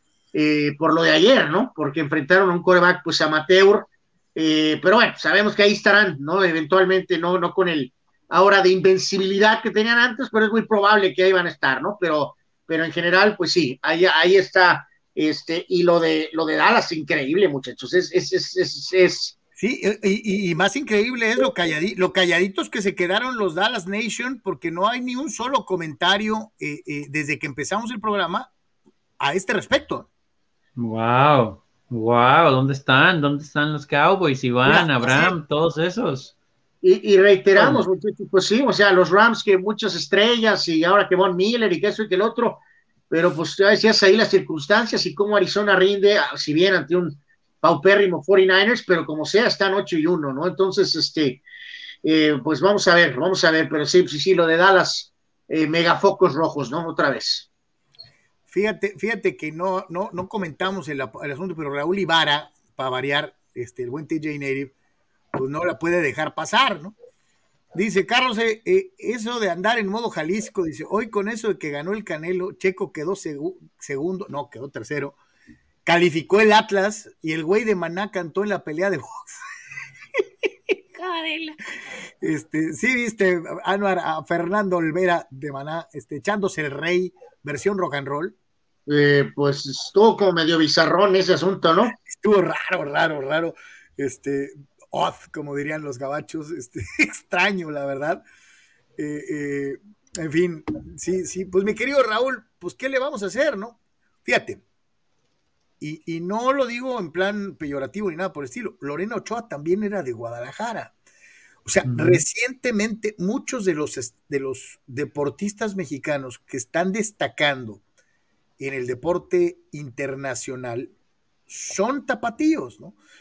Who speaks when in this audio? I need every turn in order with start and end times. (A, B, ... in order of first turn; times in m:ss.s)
0:00.3-0:19.4 A
0:19.6-0:28.5 B
0:29.2-0:30.1 B
0:30.8-0:36.3 C
0:34.6-0:35.4 B
0:36.8-0:51.4 A
0:37.6-0:37.8 C
0:52.0-0:57.5 A
0:58.5-1:04.7 B
1:05.3-1:06.9 B
1:07.7-1:15.2 B
1:15.8-1:19.4 B
1:20.7-1:21.6 B
1:22.2-1:28.3 B
1:28.9-1:32.0 A
1:31.9-1:38.2 B
1:39.0-1:44.6 B
1:45.8-1:50.9 B
1:51.6-1:57.8 B
1:51.8-1:52.2 C
1:58.6-2:00.9 B
2:01.5-2:03.0 B